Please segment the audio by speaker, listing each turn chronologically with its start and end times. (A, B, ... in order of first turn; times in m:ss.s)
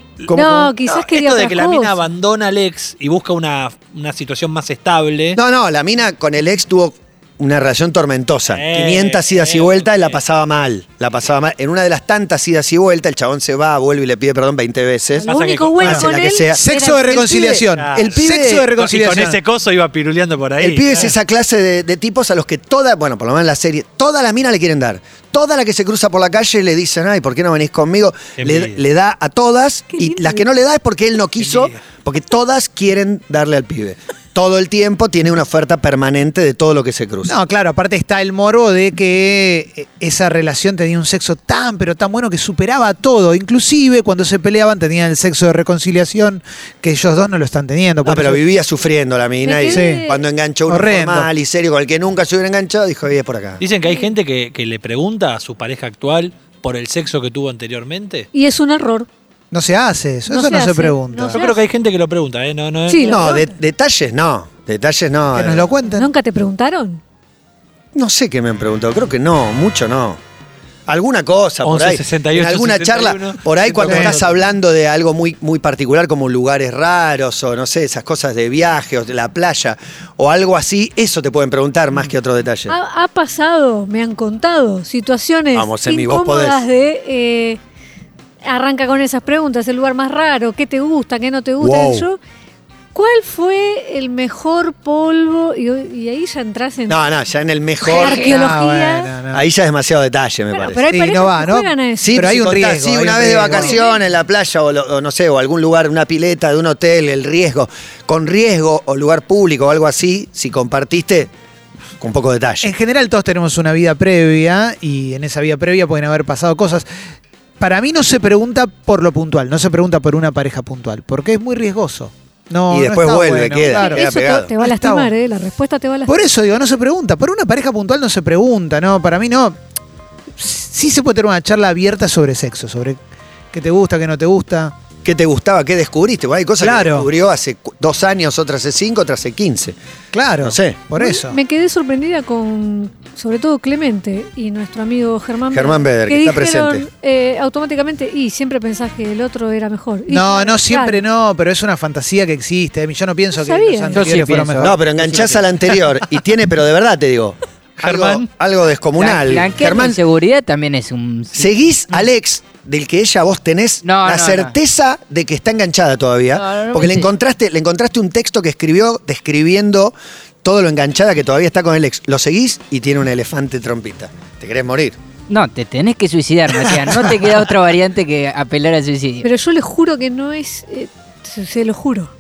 0:00.3-0:00.7 A
0:00.3-0:02.0 B
0:00.9-0:05.4 C
0:05.4-0:18.7 A
0:08.5-0:10.2 C
0:15.2-0:17.6 B
0:15.3-0:16.0 C
0:16.5-0:19.4 D
0:17.8-0:21.2 C
0:20.6-0:37.4 A
0:28.4-0:28.8 C
0:29.9-0:30.4 B
0:31.4-0:31.8 C
0:37.3-0:48.4 D
0:48.0-0:53.6 A
0:49.4-0:50.2 B
0:49.7-0:50.0 D
0:50.7-0:51.3 D
0:53.6-0:58.3 C
0:58.3-0:59.1 B
0:59.5-1:01.4 D
1:00.3-1:01.6 B
1:01.4-1:03.3 C
1:02.9-1:03.5 B
1:03.0-1:05.7 A
1:05.3-1:06.1 D
1:05.9-1:07.0 B
1:07.9-1:10.2 A
1:10.9-1:22.8 A
1:11.6-1:14.3 C
1:13.8-1:14.2 D
1:22.7-1:27.6 B
1:25.5-1:26.6 A
1:28.4-1:32.2 B
1:31.6-1:32.1 A
1:32.9-1:37.0 B
1:36.9-1:38.3 A
1:37.8-1:39.1 B
1:38.0-1:39.4 D
1:39.3-1:40.9 A
1:40.6-1:42.3 B
1:40.9-1:43.8 D
1:42.0-1:51.3 A
1:43.6-1:44.0 B
1:52.0-1:52.7 A
1:52.6-1:56.9 D
1:57.6-2:05.1 D
2:02.7-2:04.5 A
2:03.7-2:06.2 B
2:06.1-2:09.6 D
2:10.4-2:13.0 D
2:13.5-2:14.8 D
2:15.0-2:19.8 A
2:16.6-2:17.1 D
2:20.1-2:21.4 D
2:20.4-2:20.8 A
2:21.0-2:31.0 B
2:25.5-2:26.9 A
2:30.1-2:34.8 D
2:33.3-2:34.1 B
2:34.0-2:35.5 E
2:34.6-2:40.0 A
2:37.8-2:38.3 C
2:39.0-2:41.5 E
2:41.4-2:55.0 A
2:43.8-2:44.6 E
2:46.4-2:47.1 E
2:55.3-2:59.3 E
2:56.6-2:57.4 A
2:59.2-3:02.1 B